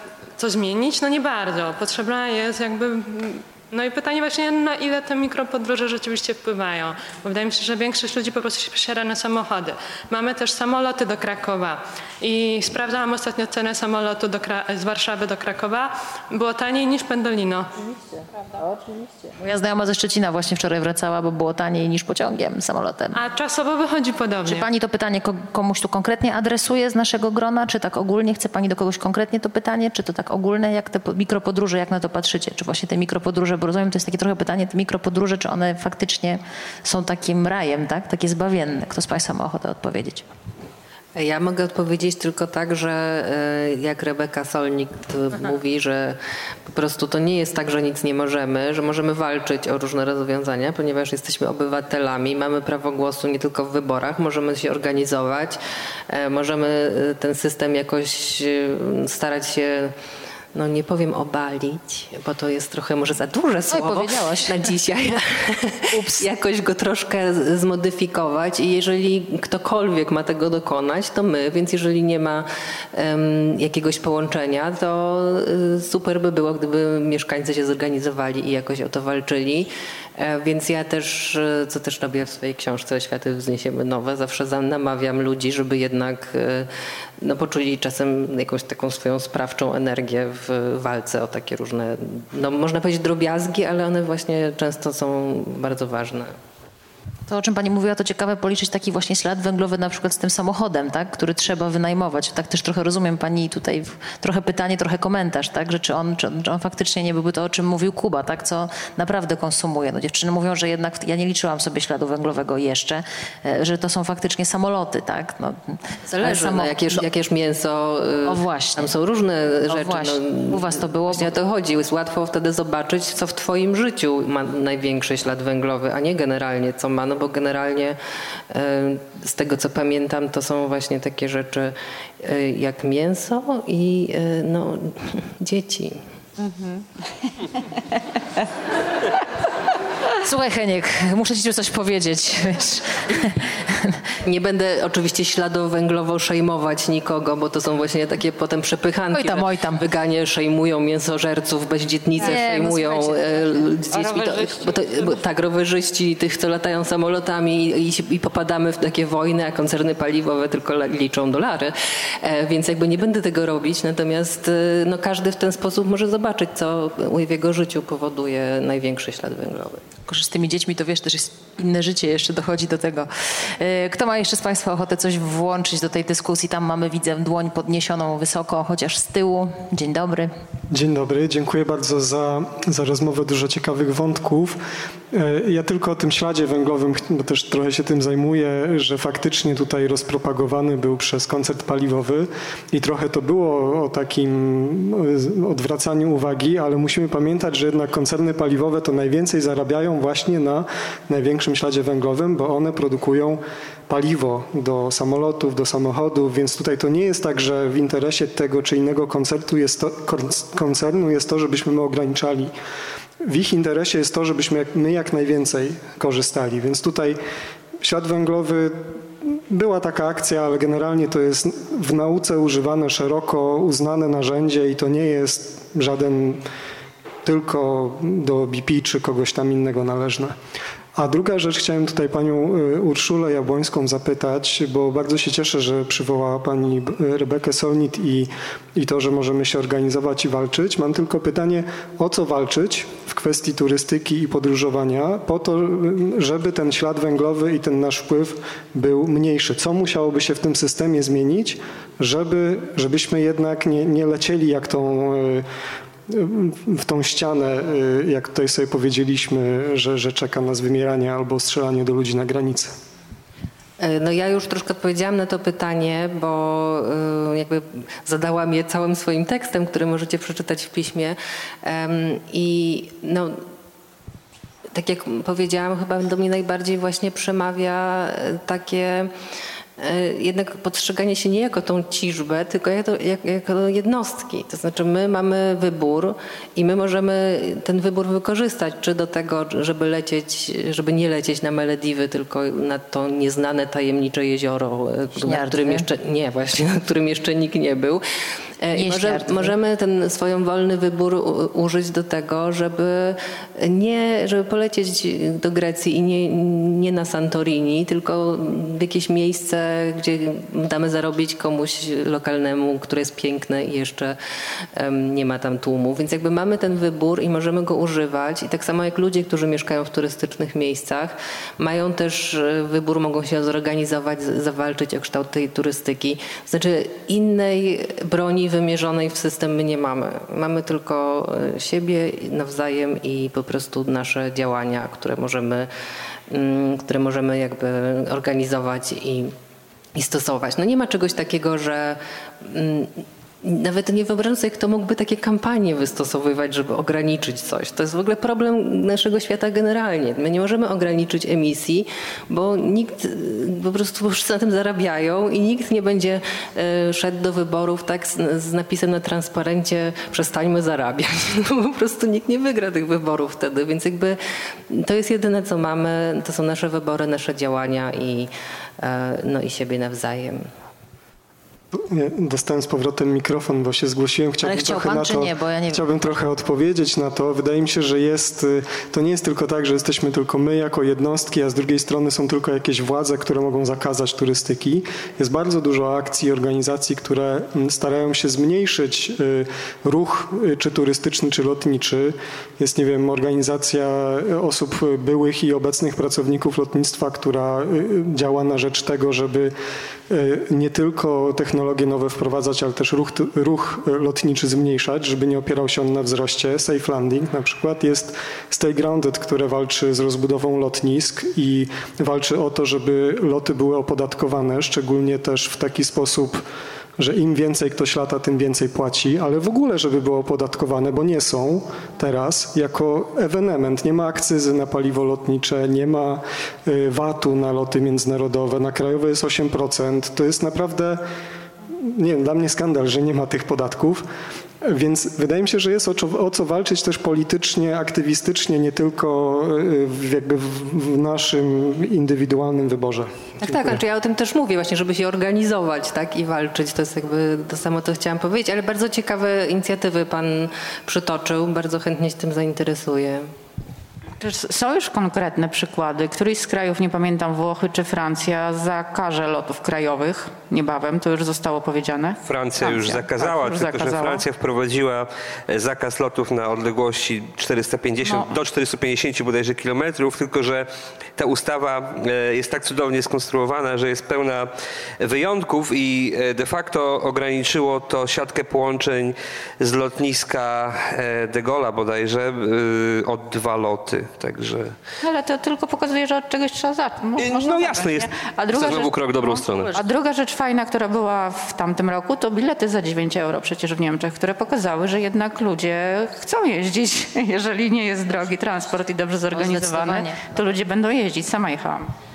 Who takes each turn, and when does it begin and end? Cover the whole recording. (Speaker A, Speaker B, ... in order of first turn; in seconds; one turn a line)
Speaker A: 0.4-17.7
Speaker B: 19.4-23.2
Speaker A: 23.1-24.7
Speaker B: 24.4-40.2
Speaker C: 41.2-55.6
Speaker C: 56.1-59.9
Speaker C: 60.5-86.7
Speaker B: 63.7-64.7
Speaker B: 65.9-66.3
Speaker C: 87.2-96.3
Speaker B: 97.3-117.0
Speaker C: 116.1-128.0
Speaker B: 118.2-118.9
Speaker B: 119.7-121.4
Speaker C: 128.5-136.0
Speaker B: 140.2-144.0
Speaker C: 144.2-169.8
Speaker B: 149.1-149.8
Speaker B: 152.2-154.4
Speaker B: 170.1-180.3
Speaker D: 180.7-184.6
Speaker D: 185.1-212.5
Speaker D: 213.3-217.2
Speaker D: 217.8-219.0
Speaker D: 219.5-226.4
Speaker D: 227.2-230.4
Speaker D: 231.0-255.4
Speaker D: 256.1-262.7
Speaker C: 263.8-273.4
Speaker C: 274.7-279.1
Speaker C: 279.8-298.0
Speaker B: 295.2-295.9
Speaker C: 298.6-314.2
Speaker B: 298.7-299.5
Speaker C: 314.8-335.7
Speaker C: 336.3-339.4
Speaker C: 339.9-364.2
Speaker C: 364.7-368.3
Speaker C: 368.8-370.5
Speaker D: 371.8-399.5
Speaker B: 374.4-375.8
Speaker D: 400.1-416.4
Speaker D: 417.0-431.0
Speaker D: 431.9-434.1
Speaker D: 434.6-443.8
Speaker C: 443.4-453.3
Speaker E: 454.2-464.2
Speaker F: 462.2-484.8
Speaker E: 468.1-468.3
Speaker E: 485.0-501.9
Speaker F: 487.2-489.8
Speaker B: 499.3-500.5